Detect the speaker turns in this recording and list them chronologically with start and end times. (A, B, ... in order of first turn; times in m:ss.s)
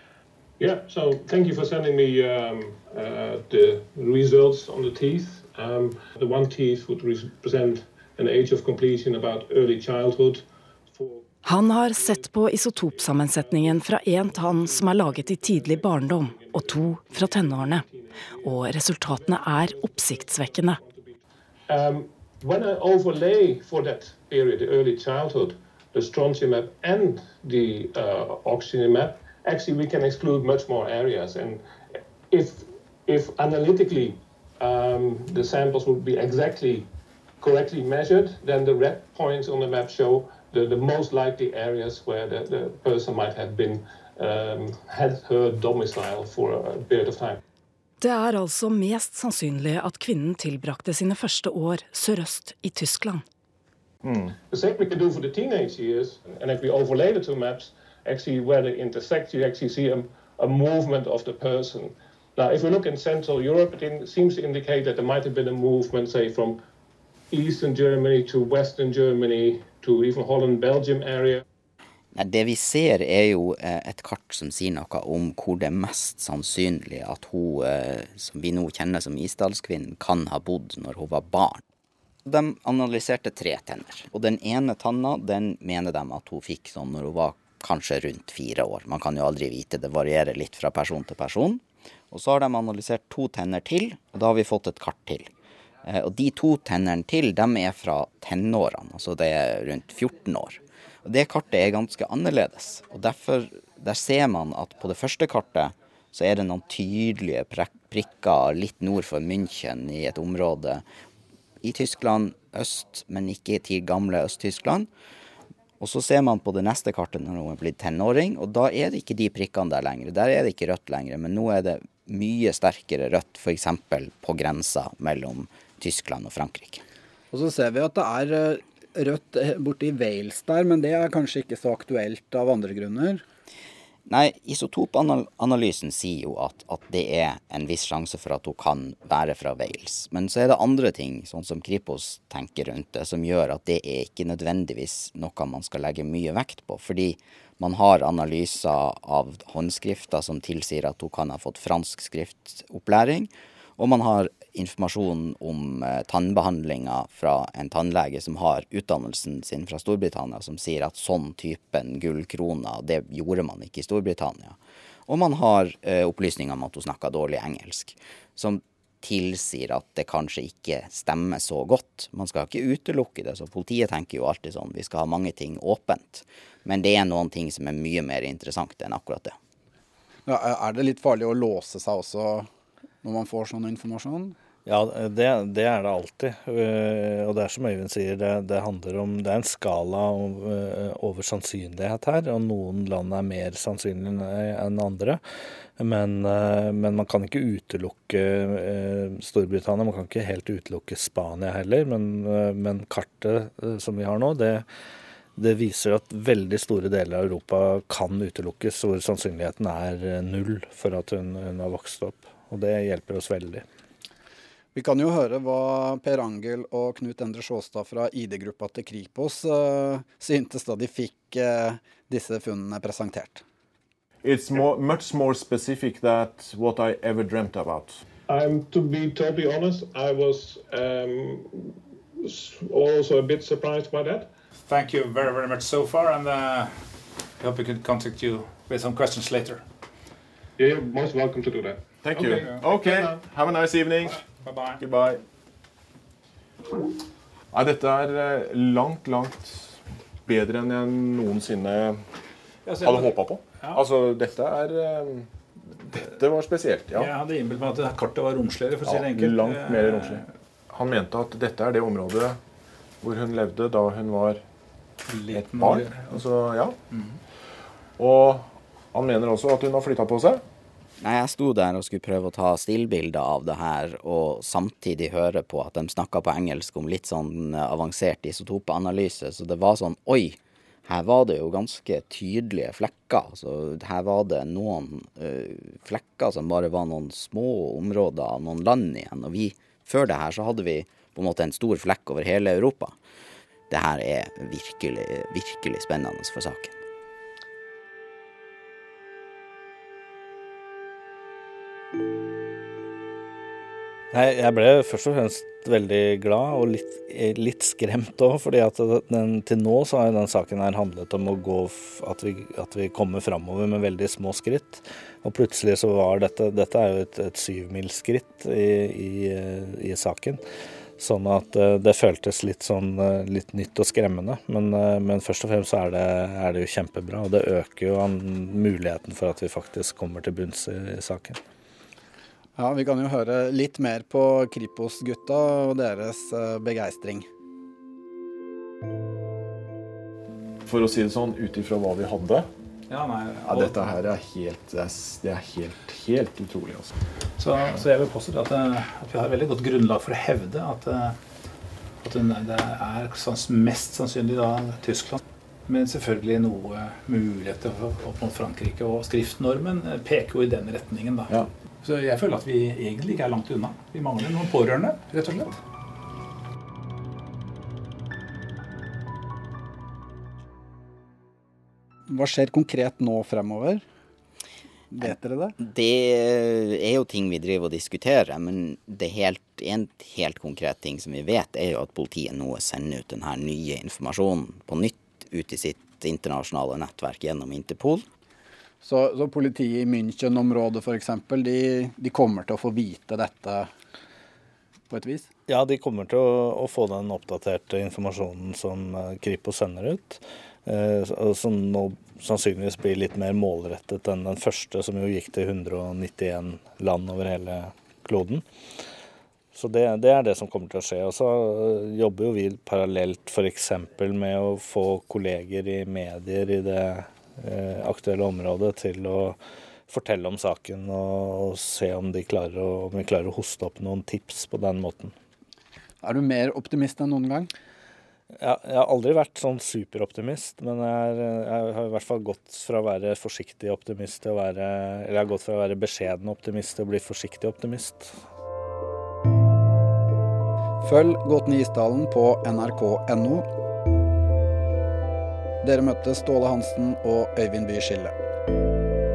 0:00.6-0:31.6 A
0:11.4-0:17.9 B
0:18.4-0:20.8 B
0:32.3-0:36.9 A
0:37.4-0:47.4 A
0:48.0-0:53.2 B
0:54.0-0:54.3 C
0:54.5-1:06.6 A
1:07.3-1:11.4 A
1:12.2-1:21.6 D
1:22.2-1:35.3 D
1:35.9-1:50.8 D
1:51.6-1:54.9 D
1:55.8-2:06.8 D
2:07.3-2:13.2 E
2:14.1-2:44.6 D
2:45.1-2:59.3 D
3:00.2-3:02.5 E
3:03.0-3:04.4 E
3:04.6-3:15.2 F
3:15.8-3:24.6 F
3:25.4-3:33.6 F
3:34.8-3:43.4 E
3:44.2-3:48.0 C
3:48.3-3:54.3 A
3:54.6-3:56.8 G
3:57.4-3:59.6 G
4:00.6-4:03.2 A
4:02.0-4:04.2 C
4:02.2-4:02.6 G
4:04.4-4:04.8 G
4:04.8-4:05.2 C
4:07.5-4:12.0 C
4:12.6-4:13.8 G
4:12.8-4:17.1 C
4:16.9-4:20.2 G
4:18.8-4:22.4 C
4:23.0-4:24.4 C
4:25.1-4:26.2 G
4:25.3-4:26.8 C
4:28.0-4:30.4 C
4:31.0-4:52.9 D
4:53.7-4:56.8 D
5:04.1-5:20.4 F
5:21.0-5:31.4 F
5:32.6-5:37.3 E
5:40.6-5:42.5 C
5:42.9-5:44.0 G
5:43.4-5:46.9 C
5:47.4-5:51.2 G
5:52.0-6:05.6 G
6:12.1-6:13.8 E
6:14.9-6:15.6 E
6:15.6-6:28.0 D
6:28.8-6:33.7 E
6:34.9-6:35.3 E
6:35.5-6:48.4 F
6:49.5-6:59.4 F
6:59.9-7:05.1 F
7:06.0-7:07.5 E
7:08.4-7:18.1 F
7:20.8-7:23.4 E
7:25.6-7:28.1 E